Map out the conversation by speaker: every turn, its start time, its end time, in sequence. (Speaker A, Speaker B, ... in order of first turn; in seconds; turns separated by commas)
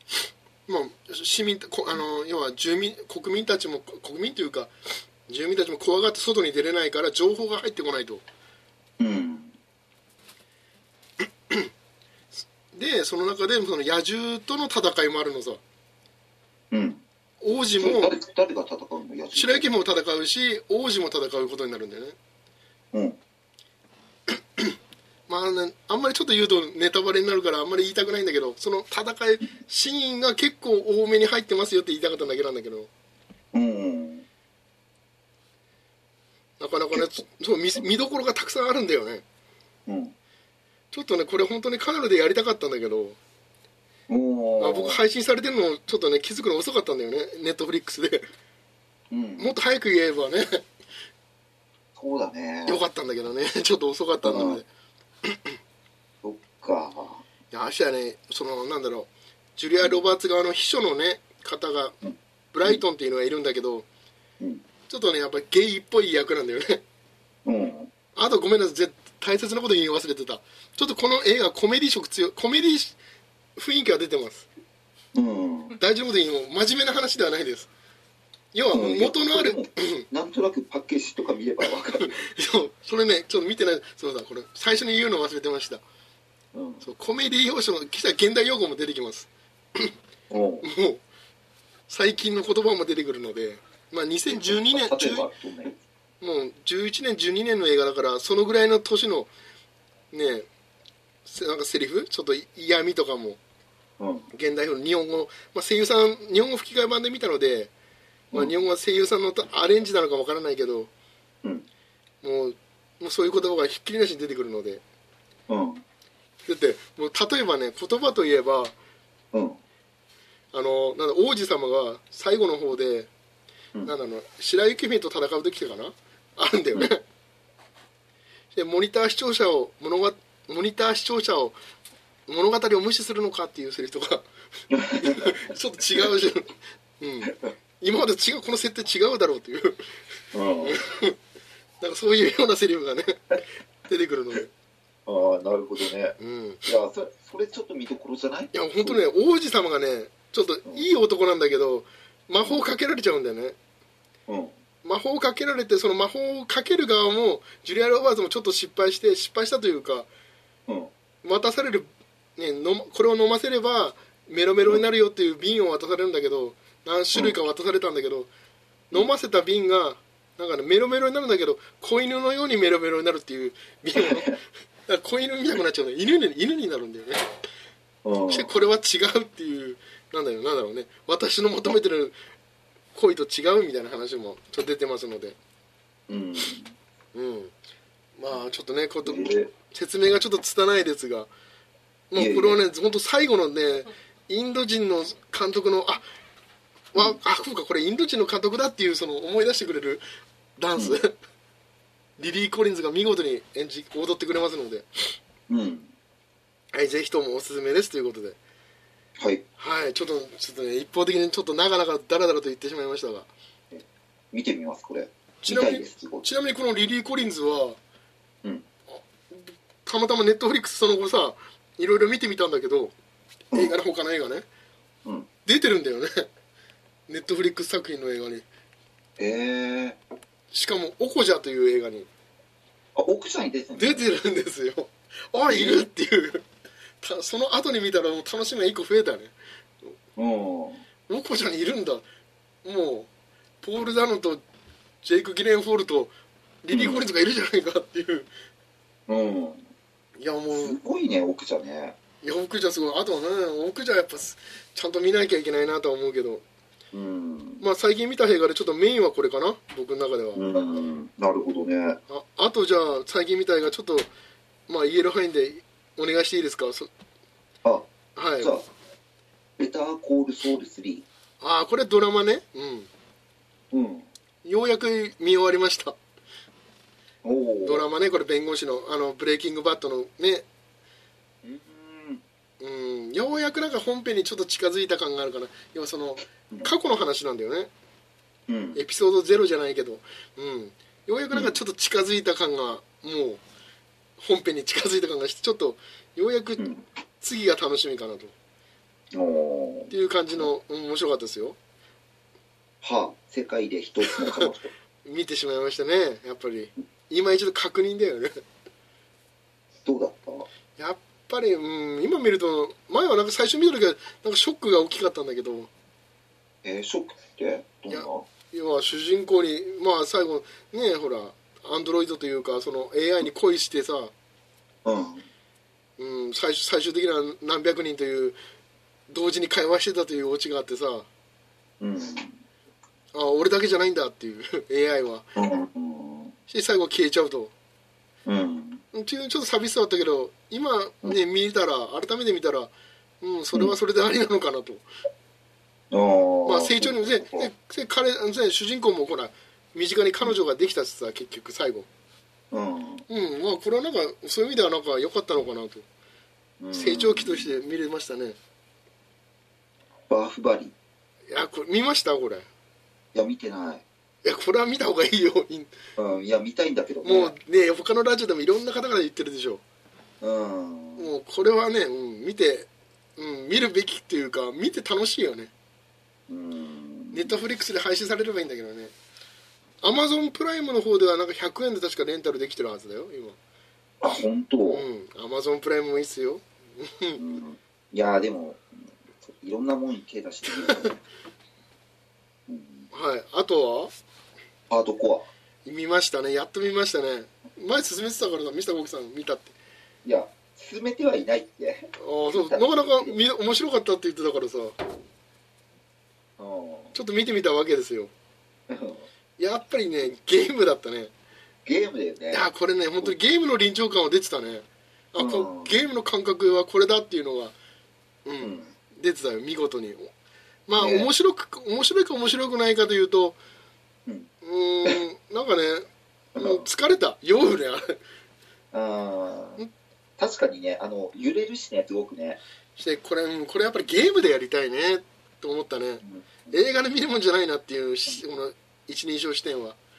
Speaker A: 0.7-4.7, Speaker A: 5.3-8.2, Speaker B: 9.0-9.5, Speaker A: 12.7-15.6, Speaker B: 16.7-17.0, Speaker A: 17.4-18.1, Speaker B: 17.8-19.7, Speaker A: 19.3-22.1, Speaker B: 22.9-23.2, Speaker A: 24.3-24.8, Speaker A: 25.3-32.9, Speaker B: 33.5-34.2, Speaker A: 36.6-39.2, Speaker B: 39.9-40.1, Speaker A: 40.9-43.2, Speaker B: 44.1-45.0, Speaker A: 44.6-48.2, Speaker B: 49.1-49.5, Speaker A: 49.4-50.6, Speaker B: 52.0-52.8, Speaker A: 52.6-54.7, Speaker B: 54.2-54.6, Speaker A: 55.2-55.6, Speaker B: 56.2-57.2, Speaker A: 57.5-62.0, Speaker A: 62.5-63.9, Speaker A: 64.9-66.8, Speaker B: 67.4-67.9, Speaker A: 68.2-73.0, Speaker A: 73.5-74.5, Speaker B: 75.1-75.8, Speaker A: 75.8-77.7, Speaker A: 78.5-80.0, Speaker B: 78.7-82.2, Speaker A: 82.0-85.8, Speaker B: 86.5-86.8, Speaker A: 86.8-89.9, Speaker B: 90.3-90.7, Speaker A: 90.6-91.0, Speaker A: 91.9-95.3, Speaker B: 94.3-95.8, Speaker A: 96.2-99.3, Speaker A: 100.1-100.5, Speaker A: 101.2-103.4, Speaker B: 104.0-104.3, Speaker A: 104.3-107.7, Speaker A: 108.3-110.9, Speaker A: 112.2-114.8, Speaker B: 115.5-115.8, Speaker A: 116.5-118.7, Speaker B: 119.3-119.6, Speaker A: 120.5-123.1, Speaker A: 123.8-127.0, Speaker A: 128.5-131.6, Speaker A: 132.3-134.3, Speaker B: 134.7-135.3, Speaker A: 134.9-139.9, Speaker B: 140.3-140.8, Speaker A: 140.6-141.2, Speaker A: 141.8-144.5, Speaker B: 145.1-149.0, Speaker A: 146.2-146.6, Speaker A: 148.5-153.6, Speaker B: 154.3-154.6, Speaker A: 154.8-160.1, Speaker A: 161.2-161.8, Speaker A: 162.4-168.3, Speaker A: 168.9-177.2, Speaker B: 174.0-174.3, Speaker B: 178.0-178.5, Speaker A: 178.3-182.1, Speaker A: 182.9-185.3, Speaker B: 186.1-186.7, Speaker A: 187.1-187.5, Speaker A: 188.2-191.3, Speaker B: 189.0-189.5, Speaker A: 192.1-196.0, Speaker B: 192.1-192.6, Speaker A: 196.9-200.0, Speaker A: 200.6-201.1, Speaker A: 202.2-204.8, Speaker B: 205.5-205.9, Speaker A: 206.7-208.4, Speaker B: 209.2-209.4, Speaker A: 209.6-213.3, Speaker B: 213.7-216.2, Speaker A: 215.4-217.8, Speaker A: 218.9-222.9, Speaker A: 223.5-224.4, Speaker A: 225.4-226.2, Speaker A: 227.1-228.4, Speaker B: 229.2-230.0, Speaker A: 230.5-232.1, Speaker B: 232.9-234.0, Speaker A: 233.8-236.4, Speaker B: 235.5-235.9, Speaker A: 237.0-239.9, Speaker B: 240.2-240.8, Speaker A: 241.1-242.0, Speaker A: 242.6-243.1, Speaker A: 243.6-244.4, Speaker A: 245.0-246.1, Speaker A: 246.6-248.3, Speaker B: 246.7-247.0, Speaker B: 249.1-249.7, Speaker A: 250.2-250.8, Speaker B: 250.5-251.9, Speaker A: 252.2-256.4, Speaker B: 256.9-257.6, Speaker A: 257.6-260.4, Speaker B: 260.3-262.0, Speaker A: 262.1-264.1, Speaker A: 264.7-266.9, Speaker A: 268.1-268.6, Speaker B: 268.4-268.6, Speaker B: 269.6-271.1, Speaker A: 271.4-272.9, Speaker B: 273.7-274.1, Speaker A: 274.4-275.9, Speaker B: 277.2-277.9, Speaker A: 277.6-280.4, Speaker B: 281.4-282.2, Speaker A: 282.6-287.7, Speaker B: 288.5-288.8, Speaker A: 288.7-293.4, Speaker A: 294.2-296.7, Speaker A: 297.2-298.3, Speaker B: 299.1-299.9, Speaker A: 299.9-301.6, Speaker B: 302.8-304.7, Speaker A: 304.1-304.5, Speaker A: 305.0-308.4, Speaker B: 309.8-310.5, Speaker A: 310.8-315.7, Speaker B: 316.6-318.3, Speaker A: 317.9-324.1, Speaker B: 324.8-325.2, Speaker A: 326.0-328.4, Speaker A: 329.1-331.1, Speaker B: 331.8-332.4, Speaker A: 333.1-335.3, Speaker B: 335.3-336.3, Speaker A: 336.5-337.5, Speaker B: 338.2-338.8, Speaker A: 338.9-344.8, Speaker B: 345.9-347.5, Speaker A: 346.4-351.9, Speaker B: 352.5-353.1, Speaker A: 353.1-355.8, Speaker B: 356.6-357.5, Speaker A: 356.7-358.4, Speaker B: 360.1-360.7, Speaker A: 361.3-362.4, Speaker B: 363.1-363.8, Speaker A: 364.2-365.7, Speaker B: 366.0-367.3, Speaker A: 367.0-369.6, Speaker B: 370.2-371.1, Speaker A: 371.0-375.5, Speaker B: 376.3-377.4, Speaker A: 377.1-378.9, Speaker A: 379.8-383.4, Speaker B: 384.0-384.8, Speaker A: 384.7-387.2, Speaker B: 387.2-391.0, Speaker B: 392.5-392.9, Speaker A: 392.9-393.9, Speaker B: 394.7-395.3, Speaker A: 395.6-399.5, Speaker B: 400.0-403.2, Speaker A: 402.0-404.8, Speaker B: 406.4-406.9, Speaker A: 406.9-408.1, Speaker B: 408.7-409.1, Speaker A: 409.4-411.1, Speaker B: 411.6-412.4, Speaker A: 412.3-417.5, Speaker B: 415.2-415.7, Speaker A: 418.2-420.1, Speaker B: 418.4-418.7, Speaker A: 420.7-423.4, Speaker B: 420.8-421.1, Speaker A: 424.4-428.0, Speaker B: 426.3-426.7, Speaker B: 428.7-429.6, Speaker B: 430.2-432.4, Speaker A: 432.8-439.8, Speaker B: 436.0-436.5